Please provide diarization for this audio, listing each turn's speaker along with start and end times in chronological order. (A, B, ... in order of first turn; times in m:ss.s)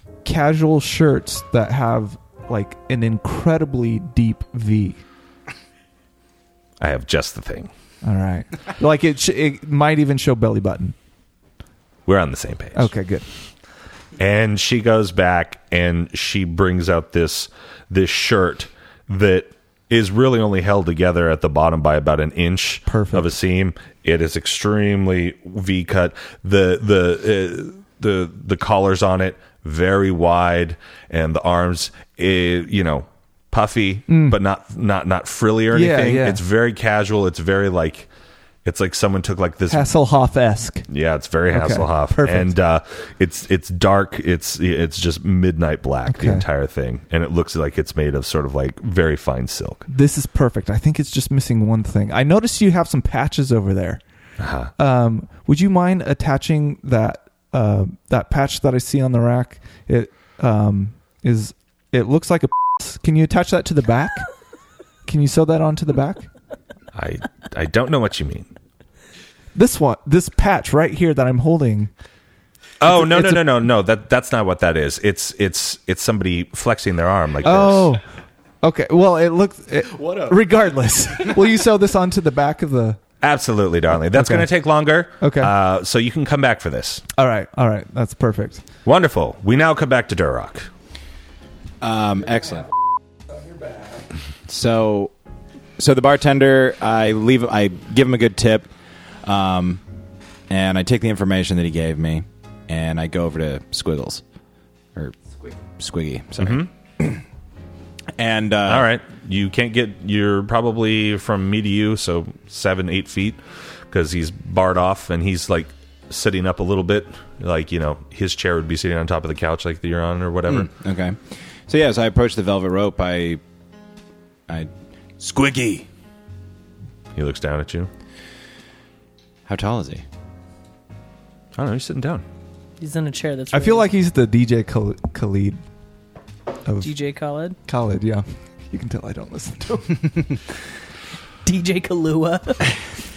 0:00.2-0:05.0 A
0:06.8-0:07.7 B
0:08.0-0:10.9 A
0:12.0-0:12.9 B
0:12.7-0:13.3 A
0:14.2-0:38.1 B
0:22.8-0:23.3 A
0:34.1-0:34.4 A
0:35.7-0:36.4 A
0:38.6-0:39.9 B
0:39.7-0:40.9 A
0:40.9-0:49.8 B
0:41.5-0:42.5 A
0:46.1-0:46.4 A
0:49.9-0:54.0 A
0:54.4-0:54.7 B
0:54.8-1:04.3 A
1:05.0-1:06.3 A
1:06.9-1:08.5 B
1:09.5-1:11.9 A
1:12.8-1:17.9 B
1:12.9-1:13.4 A
1:17.4-1:18.0 A
1:18.6-1:23.0 A
1:23.2-1:27.0 B
1:24.1-1:24.5 A
1:25.2-1:25.5 A
1:27.1-1:28.6 A
1:28.8-1:30.7 B
1:31.8-1:32.8 C
1:34.5-1:35.1 C
1:35.8-1:38.7 C
1:39.2-1:39.8 C
1:40.5-1:44.2 C
1:44.9-1:47.2 C
1:46.4-1:46.7 B
1:48.2-1:48.9 C
1:48.7-2:00.7 B
2:00.5-2:03.4 C
2:04.5-2:05.9 C
2:07.1-2:07.9 B
2:09.5-2:10.0 C
2:11.6-2:12.2 B
2:12.8-2:13.9 D
2:13.5-2:15.6 A
2:16.6-2:16.9 A
2:16.8-2:17.6 D
2:17.6-2:20.2 A
2:21.4-2:22.7 D